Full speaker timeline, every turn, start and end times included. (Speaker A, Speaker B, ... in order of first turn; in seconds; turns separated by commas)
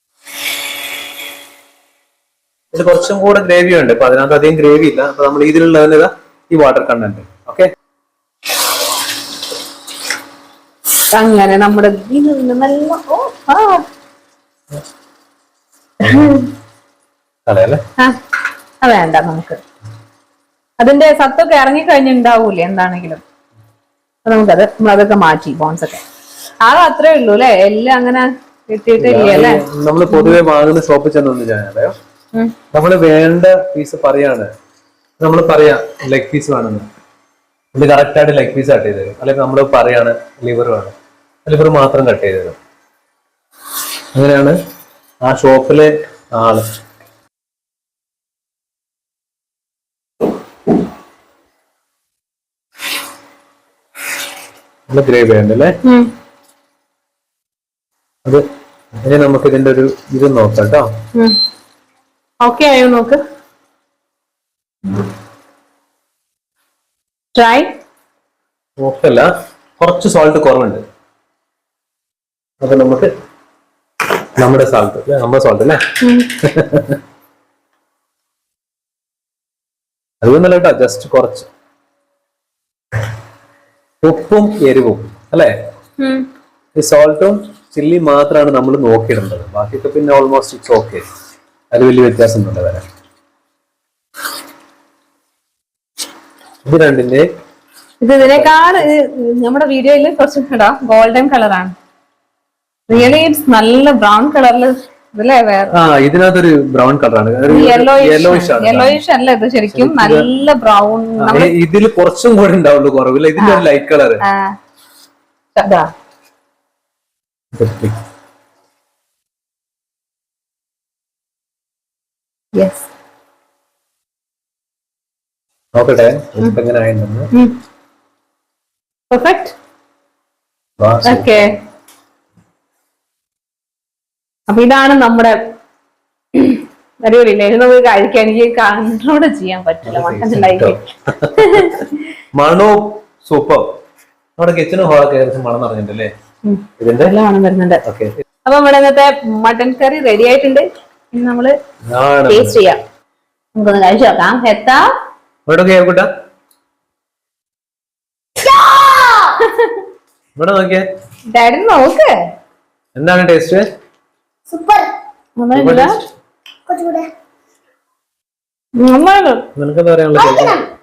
Speaker A: 2.7-7.7, Speaker B: 11.1-13.8, Speaker A: 16.0-16.4, Speaker B: 16.0-16.5, Speaker A: 17.5-17.8, Speaker B: 18.8-19.6, Speaker B: 20.8-23.2, Speaker B: 24.2-26.0, Speaker B: 26.6-30.4, Speaker A: 29.0-31.9, Speaker A: 32.7-34.5, Speaker A: 35.2-36.8, Speaker A: 37.7-40.9, Speaker A: 41.5-42.5, Speaker A: 44.1-44.5, Speaker A: 45.2-46.6, Speaker A: 54.9-55.8, Speaker B: 55.8-56.1, Speaker A: 59.0-60.9, Speaker B: 62.4-63.2, Speaker B: 67.3-67.7, Speaker A: 68.8-70.8, Speaker A: 72.6-73.1, Speaker A: 74.4-75.8, Speaker B: 76.0-76.3, Speaker A: 76.3-77.0, Speaker A: 80.2-81.5, Speaker A: 84.0-85.5, Speaker B: 86.0-86.2, Speaker A: 86.8-91.0, Speaker A: 91.7-92.8, Speaker A: 96.7-97.2, Speaker B: 98.0-101.7, Speaker A: 98.2-98.8, Speaker B: 102.9-105.7, Speaker A: 105.7-109.0, Speaker B: 107.5-111.5, Speaker A: 109.7-110.3, Speaker A: 111.2-114.2, Speaker B: 113.4-113.7, Speaker B: 114.2-114.5, Speaker B: 115.5-115.9, Speaker A: 117.5-118.0, Speaker B: 122.5-122.9, Speaker A: 125.8-127.3, Speaker B: 129.1-129.5, Speaker A: 130.8-131.4, Speaker B: 131.0-131.5, Speaker B: 134.5-135.3, Speaker B: 136.3-140.8, Speaker A: 139.8-141.8, Speaker B: 141.3-142.0, Speaker A: 142.4-143.6, Speaker A: 144.4-146.1, Speaker B: 146.4-147.8, Speaker A: 146.8-147.1, Speaker A: 147.8-148.1, Speaker B: 148.4-151.5, Speaker A: 151.9-152.6, Speaker B: 152.3-152.8, Speaker B: 153.5-154.8, Speaker A: 155.5-156.1, Speaker C: 158.4-159.4, Speaker B: 159.4-159.7, Speaker A: 160.3-160.8, Speaker B: 161.3-162.1, Speaker A: 162.9-163.7, Speaker C: 164.5-164.9, Speaker B: 165.4-165.9, Speaker A: 165.5-166.1, Speaker C: 166.7-167.1, Speaker B: 168.8-169.4, Speaker A: 169.6-170.6, Speaker C: 170.1-170.7